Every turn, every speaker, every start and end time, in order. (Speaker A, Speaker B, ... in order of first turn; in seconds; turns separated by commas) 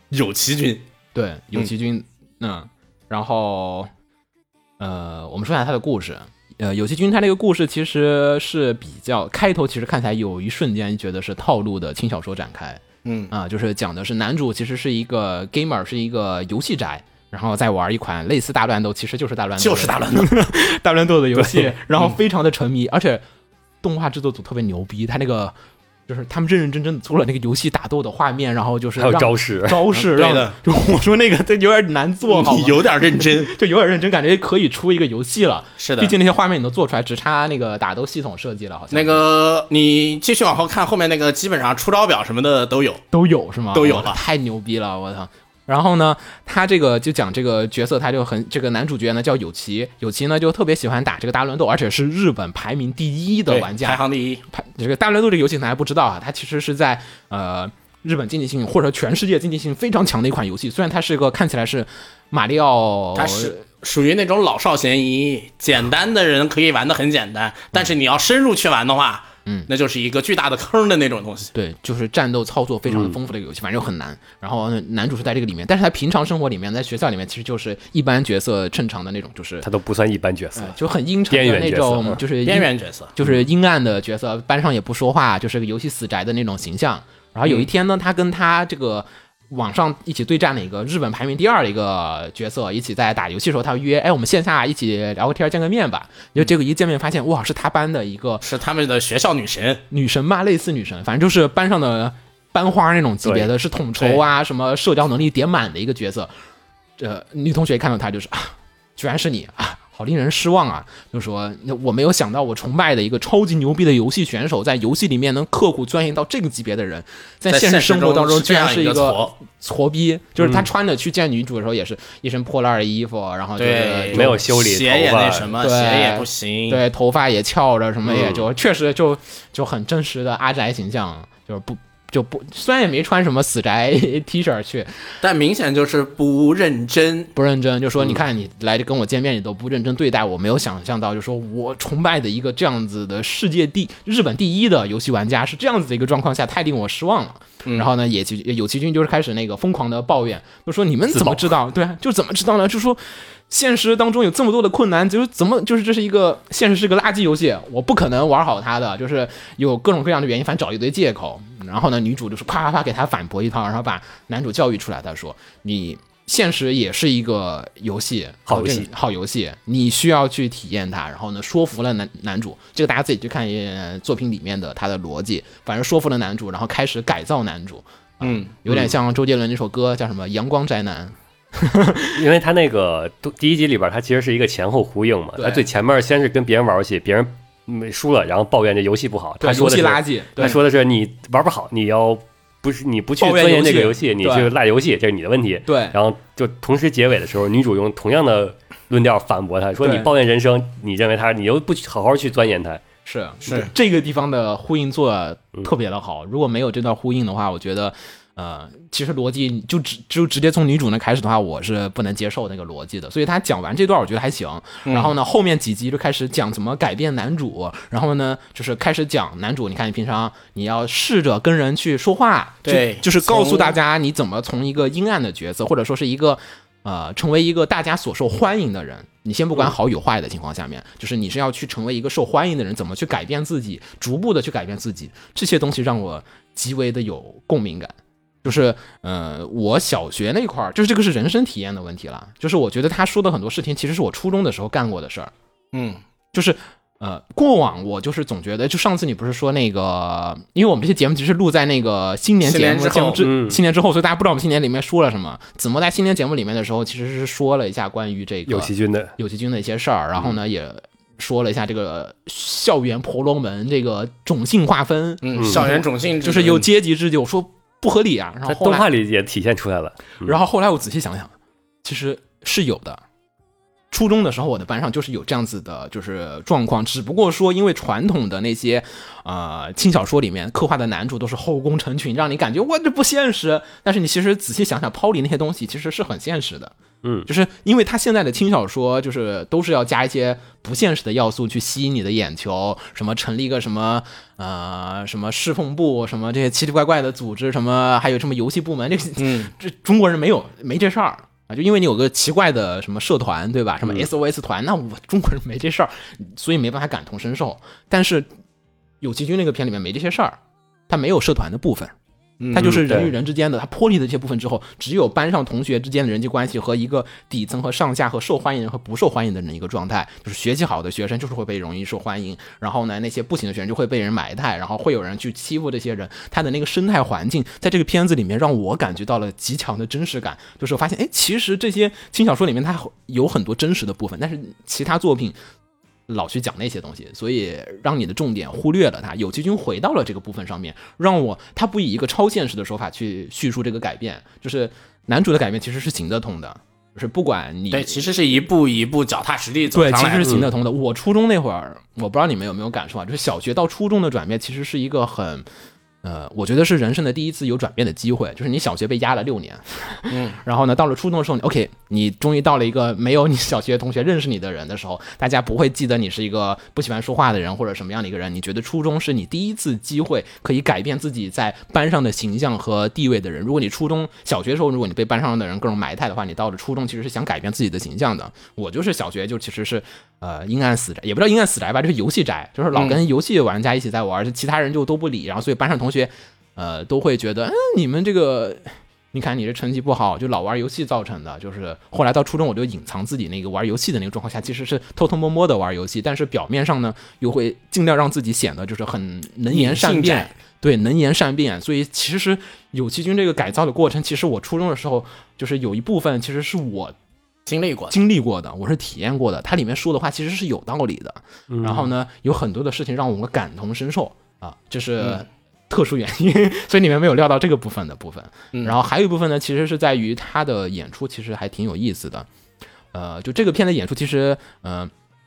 Speaker A: 0.1-0.8, Speaker B: 1.1-3.9, Speaker B: 4.8-23.2, Speaker A: 13.0-13.3, Speaker A: 19.6-20.3, Speaker B: 23.8-25.5, Speaker B: 26.1-39.2, Speaker C: 29.0-29.9, Speaker A: 29.9-30.6, Speaker A: 32.3-33.5, Speaker A: 35.8-36.1, Speaker A: 38.9-43.0, Speaker B: 43.1-63.6, Speaker A: 43.7-44.2, Speaker A: 53.5-54.4, Speaker A: 63.1-71.5, Speaker B: 71.5-79.7, Speaker C: 72.9-73.1, Speaker C: 79.6-80.8, Speaker B: 80.5-98.5, Speaker C: 81.3-82.2, Speaker A: 82.4-83.1, Speaker A: 98.4-99.8, Speaker B: 99.9-106.3, Speaker C: 103.2-103.5, Speaker A: 104.0-104.2, Speaker B: 107.0-124.4, Speaker A: 117.5-119.3, Speaker A: 123.6-126.8, Speaker C: 124.1-125.5, Speaker B: 125.6-135.2, Speaker C: 128.1-128.4, Speaker A: 135.2-137.3, Speaker B: 137.3-182.2, Speaker C: 151.1-151.5, Speaker C: 168.5-168.9, Speaker A: 178.2-178.7, Speaker C: 182.1-202.8, Speaker B: 185.4-185.7, Speaker B: 189.4-190.6, Speaker B: 193.2-194.5, Speaker B: 195.7-196.0, Speaker B: 199.8-200.1, Speaker B: 203.1-245.3, Speaker A: 203.4-203.7, Speaker A: 214.8-215.1, Speaker A: 222.6-223.8, Speaker A: 245.7-246.0, Speaker B: 246.3-268.9, Speaker A: 252.4-253.2, Speaker C: 253.2-253.6, Speaker C: 258.5-259.1, Speaker A: 265.2-266.7, Speaker C: 268.4-270.3, Speaker B: 270.2-271.3, Speaker B: 271.8-273.0, Speaker B: 273.9-308.3, Speaker C: 287.0-287.3, Speaker A: 299.2-299.5, Speaker B: 309.0-311.9, Speaker A: 312.4-312.8, Speaker B: 312.5-335.4, Speaker C: 312.6-313.1, Speaker B: 336.1-348.0, Speaker A: 347.7-350.5, Speaker B: 349.7-355.5, Speaker B: 356.0-406.9, Speaker A: 360.1-360.4, Speaker A: 382.7-383.0, Speaker A: 399.5-400.3, Speaker A: 407.4-407.9, Speaker B: 407.9-422.3, Speaker C: 411.5-411.9, Speaker B: 422.9-424.9